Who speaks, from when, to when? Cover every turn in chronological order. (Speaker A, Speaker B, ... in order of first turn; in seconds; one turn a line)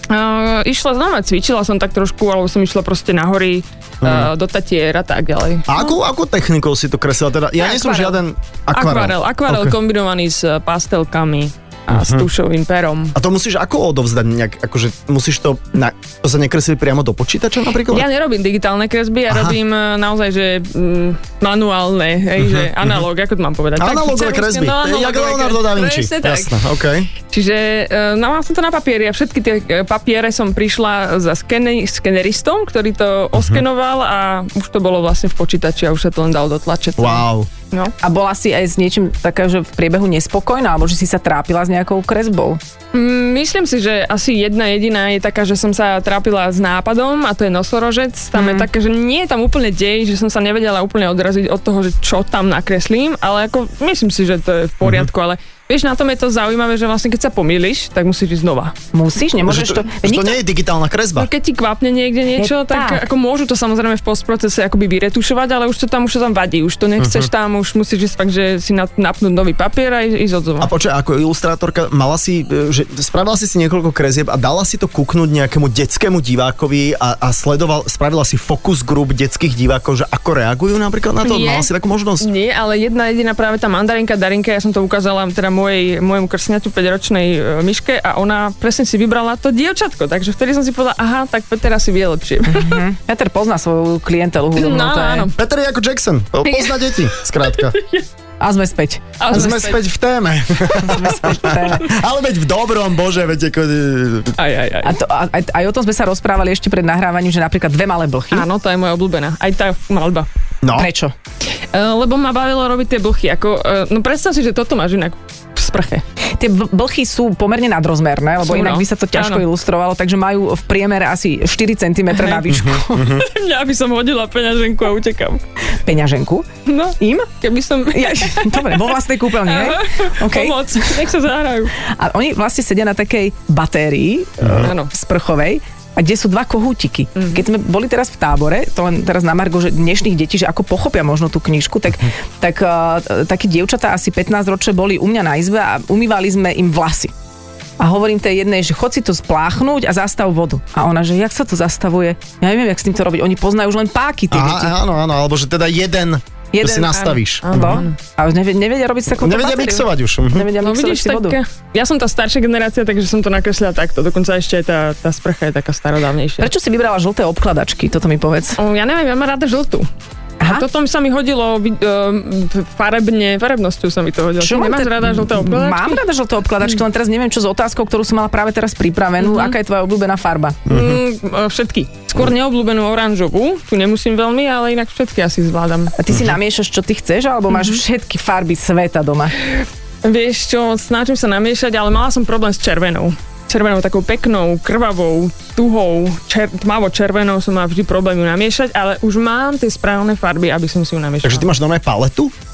Speaker A: 0.1-6.0
Speaker B: 4.0-4.3
Speaker B: 5.7-9.8
Speaker A: 7.6-8.2
Speaker A: 8.7-13.2
Speaker B: 11.9-12.3
Speaker B: 13.2-18.1
Speaker A: 17.9-26.6
Speaker B: 19.3-19.6
Speaker B: 22.4-23.0
Speaker B: 23.8-27.1
Speaker A: 27.2-37.9
Speaker B: 33.4-33.6
Speaker B: 37.0-37.5
Speaker C: 38.0-42.6
Speaker A: 42.9-58.7
Speaker C: 48.4-48.7
Speaker B: 54.8-55.1
Speaker C: 58.9-60.4
Speaker B: 59.5-61.3
Speaker A: 61.2-70.7
Speaker C: 62.4-63.0
Speaker B: 67.0-67.3
Speaker B: 70.6-82.3
Speaker A: 81.2-81.7
Speaker A: 82.2-92.8
Speaker C: 92.5-95.3
Speaker A: 94.6-95.4
Speaker B: 95.3-97.8
Speaker A: 96.5-98.1
Speaker C: 98.4-99.8
Speaker A: 99.2-99.8
Speaker B: 99.3-104.4
Speaker C: 100.8-102.0
Speaker A: 104.4-105.0
Speaker C: 104.8-108.5
Speaker A: 108.3-110.3
Speaker B: 110.6-110.9
Speaker C: 110.7-111.1
Speaker A: 111.7-116.0
Speaker C: 116.4-123.2
Speaker A: 118.4-119.4
Speaker A: 122.1-122.5
Speaker B: 122.5-123.3
Speaker A: 123.0-125.4
Speaker C: 125.8-126.5
Speaker A: 126.7-131.7
Speaker C: 127.0-127.3
Speaker C: 127.9-131.0
Speaker C: 131.8-147.1
Speaker B: 134.4-134.7
Speaker A: 134.6-134.9
Speaker A: 137.2-137.4
Speaker C: 147.8-154.8
Speaker B: 154.3-157.8
Speaker C: 156.5-161.4
Speaker A: 156.9-158.0
Speaker B: 159.2-160.5
Speaker A: 160.6-166.5
Speaker C: 166.4-168.6
Speaker A: 168.6-169.9
Speaker C: 170.4-170.7
Speaker A: 170.4-176.0
Speaker C: 174.4-180.6
Speaker A: 179.2-179.6
Speaker B: 180.7-181.0
Speaker A: 180.7-185.9
Speaker C: 186.0-189.3
Speaker B: 186.1-186.4
Speaker A: 187.5-187.8
Speaker A: 189.4-201.5
Speaker B: 201.2-202.3